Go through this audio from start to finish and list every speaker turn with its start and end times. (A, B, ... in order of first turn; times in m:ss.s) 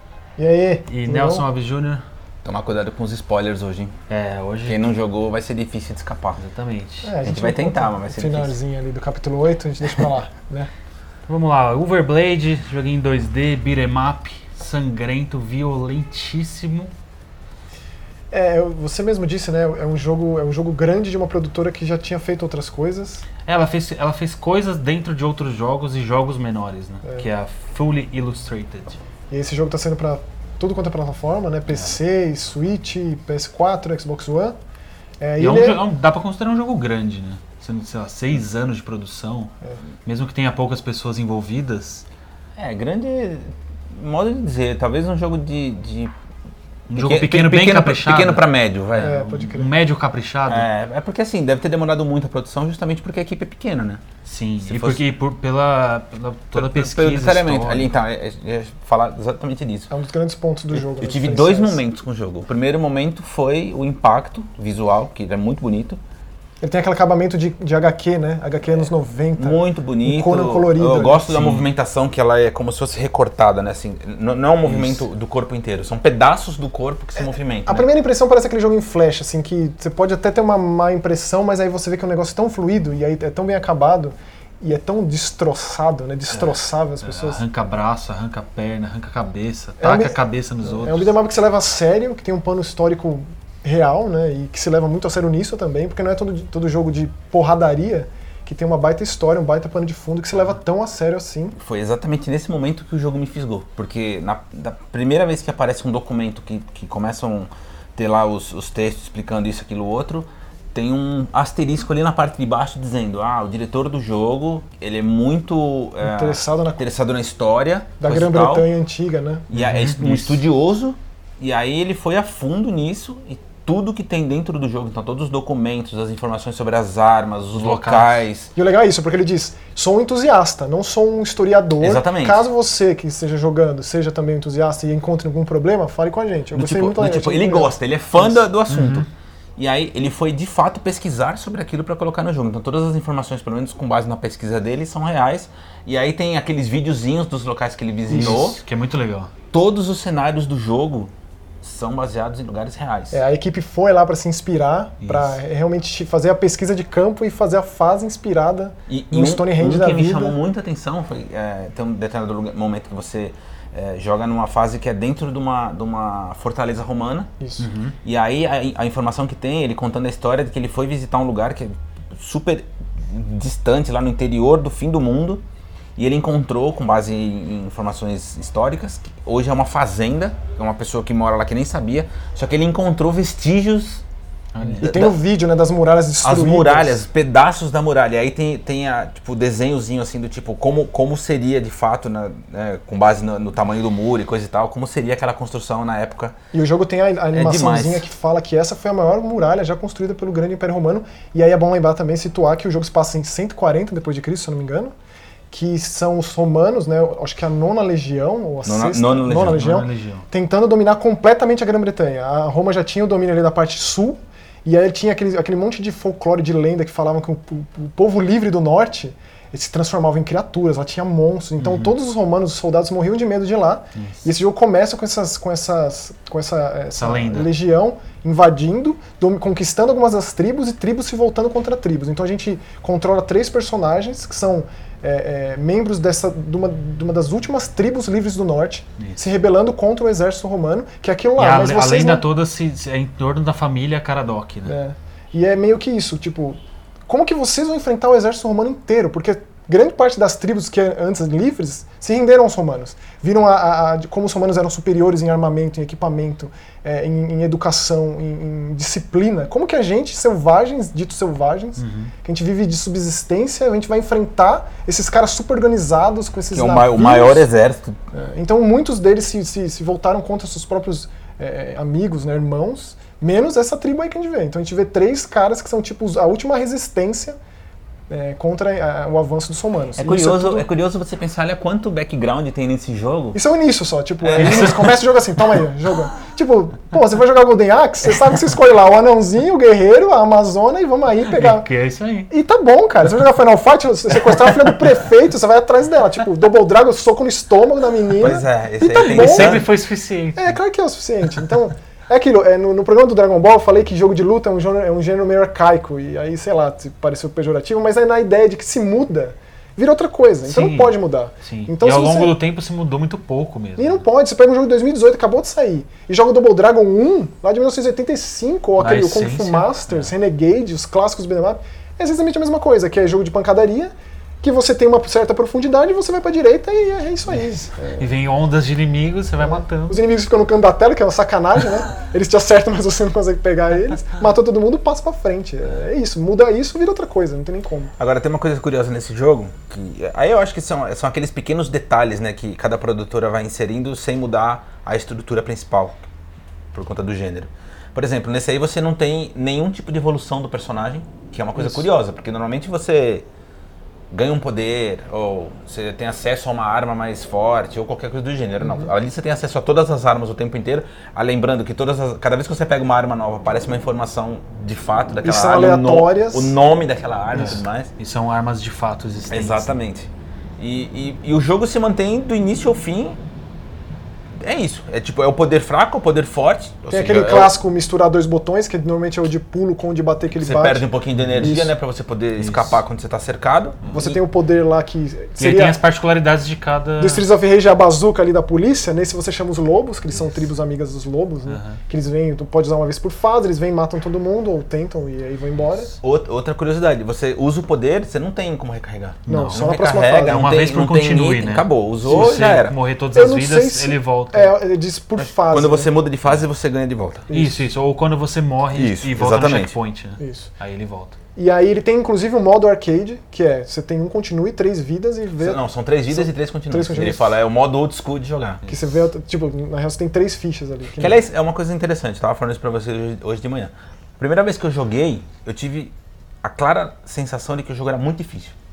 0:00.4-0:01.5 A
0:00.9-0:02.0 B
0:02.4-0:04.0 C
0:04.1-0:04.9 B
0:04.7-0:06.4 C
0:06.4-0:07.2 B
0:07.0-0:10.7 A
0:07.2-0:08.6 C
0:11.3-0:16.9 B
0:18.3-0:23.3 A
0:23.5-0:29.0 B
0:27.0-0:27.3 A
0:29.3-0:34.6 A
0:31.7-0:32.0 B
0:35.2-0:35.8 A
0:35.4-0:39.5 B
0:40.0-0:42.1 B
0:42.6-0:46.1 C
0:46.9-0:48.4 B
0:47.0-0:49.1 C
0:49.0-0:50.7 B
0:49.0-0:49.8 A
0:50.5-0:54.0 C
0:54.2-0:57.9 B
0:54.7-0:55.0 C
0:56.6-0:59.9 C
0:59.9-1:01.8 A
1:00.7-1:06.0 C
1:06.6-1:11.4 A
1:08.8-1:17.9 C
1:11.3-1:11.7 B
1:14.6-1:15.1 B
1:17.2-1:27.4 A
1:27.0-1:31.1 B
1:29.8-1:41.6 A
1:41.6-1:58.7 C
1:56.0-1:56.8 A
1:58.0-1:59.5 A
1:59.5-2:08.5 C
1:59.5-2:00.4 B
2:07.6-2:08.3 B
2:08.6-2:18.4 A
2:11.8-2:12.5 C
2:16.5-2:28.6 C
2:18.7-2:19.1 B
2:28.1-2:28.5 A
2:28.1-2:29.3 B
2:29.5-2:33.2 C
2:33.1-2:40.4 A
2:35.0-2:35.4 B
2:38.9-2:47.3 C
2:47.4-2:47.7 A
2:47.6-2:48.0 B
2:48.0-2:55.4 C
2:56.0-3:04.0 C
3:04.5-3:05.0 B
3:04.6-3:07.0 A
3:04.8-3:05.2 C
3:06.2-3:16.3 C
3:16.5-3:24.9 A
3:17.3-3:18.1 C
3:25.5-4:02.3 A
3:28.6-3:29.6 C
3:29.3-3:30.3 B
3:41.6-3:41.9 B
3:44.0-3:44.3 B
3:47.0-3:47.5 B
4:01.4-4:04.8 B
4:04.6-4:06.6 A
4:07.1-4:27.5 A
4:21.8-4:22.1 B
4:26.5-4:28.0 C
4:28.1-4:37.4 A
4:38.1-4:40.7 A
4:40.0-4:43.4 C
4:43.3-4:51.7 A
4:44.2-4:44.8 C
4:44.4-4:45.0 B
4:51.3-4:52.3 B
4:52.3-4:59.7 A
4:58.2-4:59.7 C
4:59.0-5:00.6 B
5:00.4-5:12.4 A
5:10.4-5:14.0 B
5:13.8-5:28.2 A
5:18.8-5:20.1 B
5:27.3-5:30.0 B
5:29.4-5:37.9 A
5:38.0-5:46.0 C
5:46.7-5:53.3 C
5:51.6-5:51.9 A
5:54.1-6:07.9 C
5:58.6-5:58.9 A
6:05.2-6:06.6 A
6:07.4-6:09.7 B
6:09.3-6:13.2 C
6:14.4-6:17.6 C
6:16.9-6:21.7 A
6:20.4-6:24.2 C
6:22.4-6:22.8 B
6:23.9-6:25.8 A
6:25.4-6:27.3 B
6:27.0-6:36.0 A
6:31.5-6:31.8 B
6:36.0-6:42.8 C
6:39.3-6:39.7 B
6:39.3-6:40.4 A
6:40.2-6:44.6 B
6:43.1-6:45.9 A
6:45.2-6:47.3 C
6:47.3-6:47.7 A
6:47.3-6:51.2 B
6:48.7-6:49.8 C
6:50.2-6:50.5 A
6:51.4-6:57.4 A
6:55.4-6:58.6 C
6:58.6-6:59.0 B
6:58.7-7:01.2 A
7:01.0-7:08.6 C